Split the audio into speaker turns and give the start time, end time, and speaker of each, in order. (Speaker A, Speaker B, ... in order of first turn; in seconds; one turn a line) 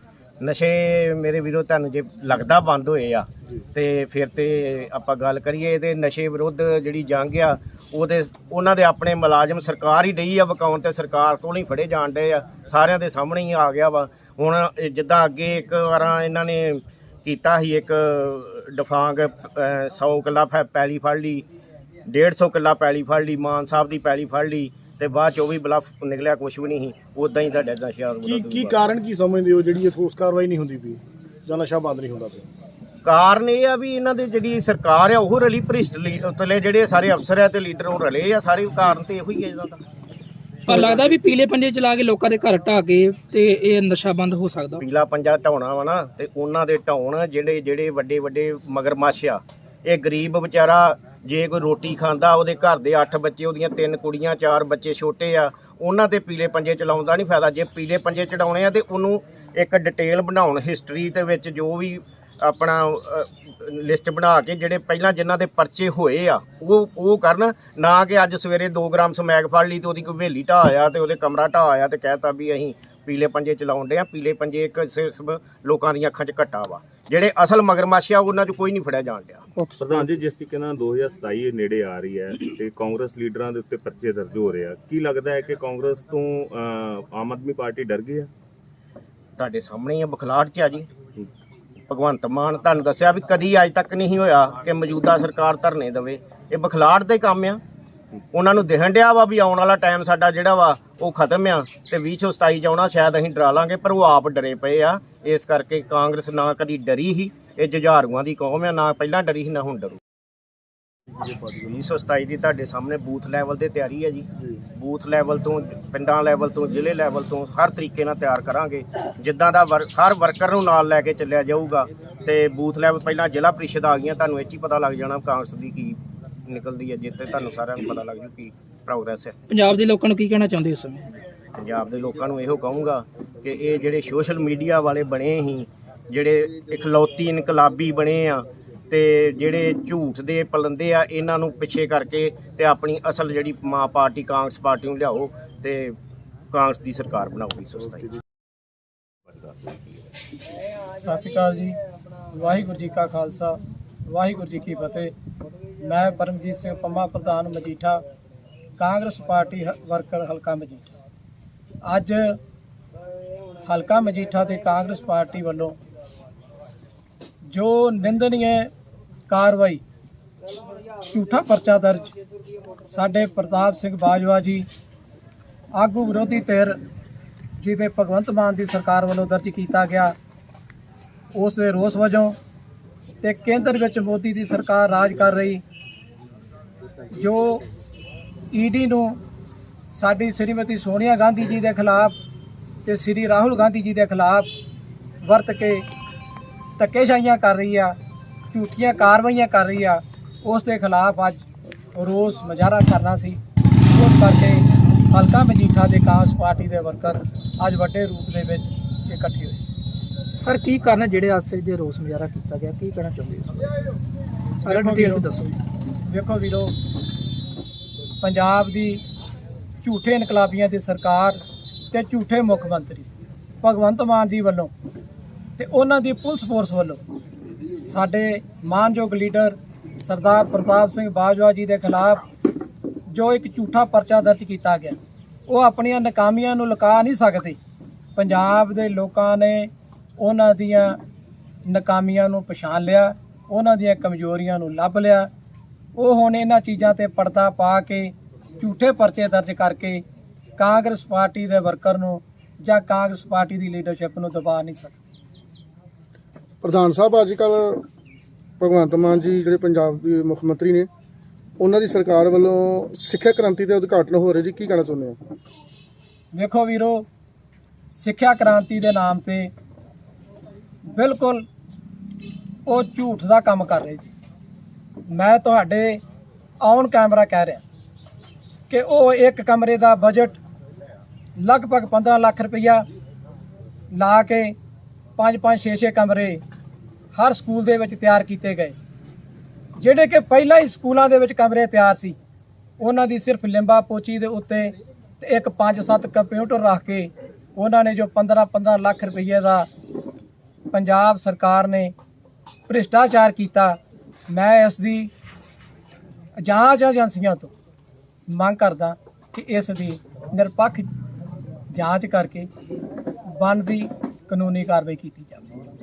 Speaker A: 0.4-21.4
Speaker A: 22.1-28.9
Speaker B: 28.2-32.4
Speaker A: 33.0-39.8
Speaker C: 40.7-44.7
Speaker A: 44.8-79.4
Speaker D: 79.6-80.0
Speaker E: 79.8-88.3
Speaker A: 89.4-90.9
Speaker A: 91.9-97.6
Speaker A: 98.3-110.0
Speaker A: 111.6-129.3
Speaker C: 129.5-131.0
Speaker A: 131.6-145.9
Speaker A: 146.5-148.1
Speaker D: 151.0-151.8
Speaker D: 152.3-155.1
Speaker D: 155.8-158.0
Speaker D: 158.8-160.9
Speaker D: 161.8-162.4
Speaker D: 163.6-165.8
Speaker D: 167.5-168.7
Speaker D: 169.3-169.8
Speaker D: 171.1-172.1
Speaker D: 172.9-174.7
Speaker D: 175.8-176.8
Speaker D: 177.6-180.1
Speaker D: 181.3-182.3
Speaker D: 183.2-185.6
Speaker D: 187.1-187.6
Speaker D: 188.5-189.2
Speaker D: 189.9-192.1
Speaker D: 192.8-194.5
Speaker D: 195.2-195.8
Speaker D: 196.8-197.9
Speaker D: 198.5-203.4
Speaker D: 203.9-209.6
Speaker C: 210.4-213.5
Speaker D: 214.6-215.3
Speaker C: 214.7-215.6
Speaker D: 216.1-216.7
Speaker D: 218.2-219.0
Speaker D: 219.8-221.4
Speaker D: 221.9-223.1
Speaker D: 223.6-224.7
Speaker D: 225.6-227.0
Speaker D: 227.8-232.2
Speaker D: 233.1-237.6
Speaker D: 238.2-241.0
Speaker D: 241.7-245.3
Speaker D: 245.9-250.0
Speaker D: 250.6-255.0
Speaker B: 256.6-257.8
Speaker B: 258.6-260.9
Speaker B: 261.6-265.2
Speaker D: 266.3-267.1
Speaker D: 267.9-269.5
Speaker D: 270.9-271.4
Speaker D: 272.6-274.1
Speaker D: 275.1-276.0
Speaker D: 276.6-277.6
Speaker D: 278.7-280.4
Speaker D: 281.4-282.8
Speaker D: 283.9-284.5
Speaker D: 285.2-286.4
Speaker D: 287.1-288.8
Speaker D: 289.8-292.2
Speaker D: 292.8-299.7
Speaker D: 300.7-301.9
Speaker D: 302.7-303.8
Speaker D: 304.3-305.1
Speaker D: 306.4-307.5
Speaker D: 308.3-310.9
Speaker D: 311.7-312.5
Speaker D: 313.4-315.4